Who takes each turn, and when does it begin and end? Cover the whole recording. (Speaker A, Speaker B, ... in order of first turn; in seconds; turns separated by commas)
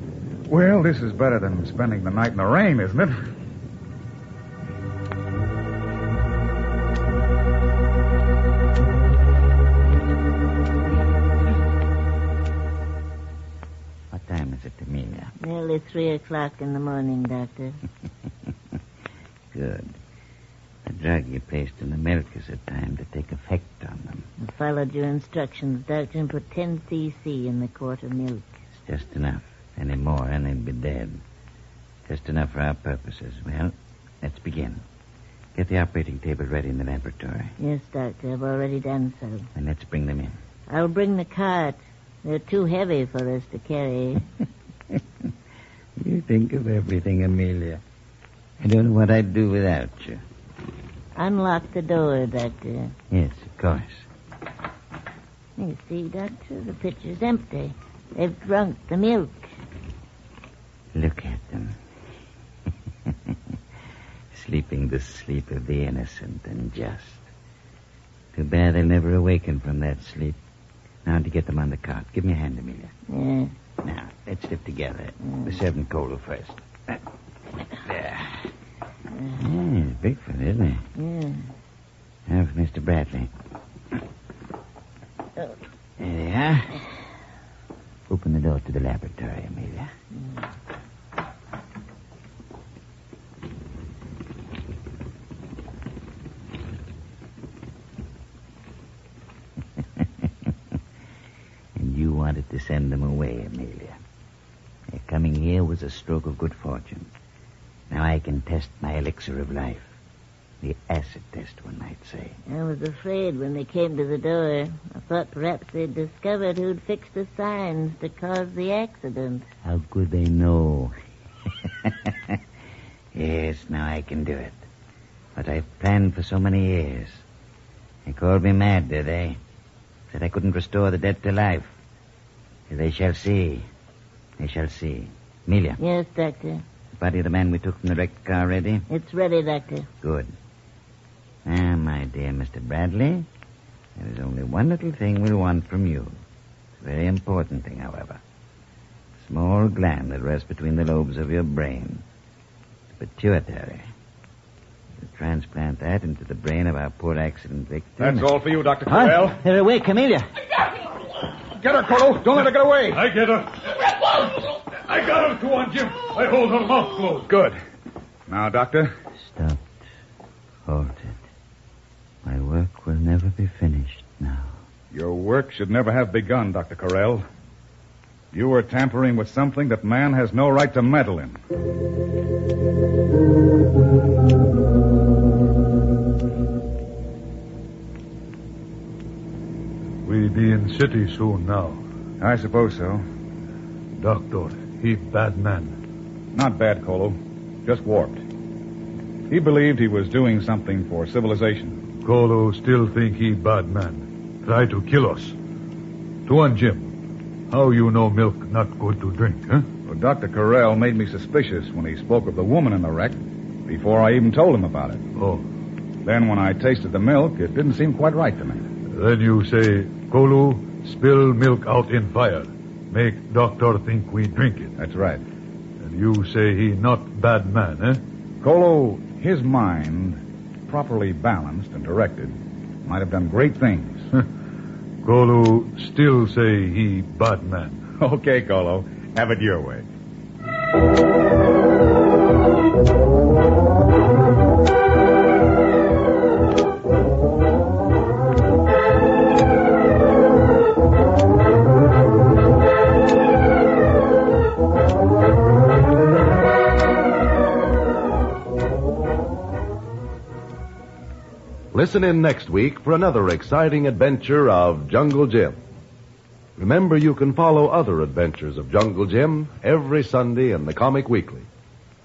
Speaker A: 0.5-3.2, Speaker B: 14.1-15.3, Speaker C: 15.4-17.8, Speaker B: 19.5-20.0, Speaker B: 20.9-24.3, Speaker C: 24.4-28.5, Speaker B: 28.9-31.2, Speaker B: 32.1-34.8, Speaker B: 35.5-37.5, Speaker C: 37.6-39.5, Speaker B: 39.5-40.3, Speaker C: 40.7-44.2, Speaker B: 46.0-47.8, Speaker B: 48.6-50.2, Speaker C: 51.1-52.9, Speaker B: 53.1-54.0, Speaker C: 55.6-59.5, Speaker B: 60.9-61.8, Speaker B: 64.3-67.3, Speaker B: 68.3-70.4, Speaker B: 71.0-72.9, Speaker C: 73.1-73.5, Speaker B: 73.8-76.6, Speaker B: 77.8-78.4, Speaker B: 79.3-80.8, Speaker C: 81.0-81.5, Speaker B: 82.3-83.3, Speaker B: 86.0-86.8, Speaker B: 88.1-89.9, Speaker B: 101.8-104.0, Speaker B: 104.9-107.1, Speaker B: 107.9-109.9, Speaker B: 110.6-112.4, Speaker C: 112.5-119.5, Speaker B: 119.6-120.9, Speaker B: 121.8-122.1, Speaker B: 123.1-124.6, Speaker B: 125.4-127.2, Speaker B: 128.1-129.4, Speaker B: 130.1-131.7, Speaker B: 132.7-133.7, Speaker B: 134.4-135.8, Speaker C: 135.8-136.6, Speaker B: 137.0-138.9, Speaker C: 138.9-139.9, Speaker B: 140.0-140.3, Speaker B: 141.5-143.3, Speaker B: 144.0-146.2, Speaker B: 146.8-148.2, Speaker B: 149.2-152.0, Speaker B: 152.9-153.9, Speaker B: 155.0-158.3, Speaker A: 158.0-159.4, Speaker B: 158.9-160.3, Speaker A: 161.6-163.0, Speaker D: 162.9-167.3, Speaker A: 167.3-167.6, Speaker A: 168.3-168.9, Speaker B: 169.2-169.6, Speaker B: 170.7-171.2, Speaker B: 172.2-174.5, Speaker A: 174.9-177.2, Speaker A: 178.3-181.4, Speaker D: 190.1-191.8, Speaker A: 192.2-193.0, Speaker D: 194.0-195.8, Speaker A: 196.3-198.2, Speaker A: 199.3-201.8, Speaker D: 202.0-205.4, Speaker D: 206.2-206.9, Speaker D: 207.5-209.7, Speaker A: 209.9-215.0, Speaker D: 215.2-215.4, Speaker A: 216.1-218.7, Speaker D: 218.9-224.7, Speaker A: 224.8-225.2, Speaker D: 225.8-228.0, Speaker A: 228.4-234.0, Speaker D: 235.0-237.8, Speaker A: 238.0-239.9, Speaker E: 261.7-265.6, Speaker E: 266.6-271.5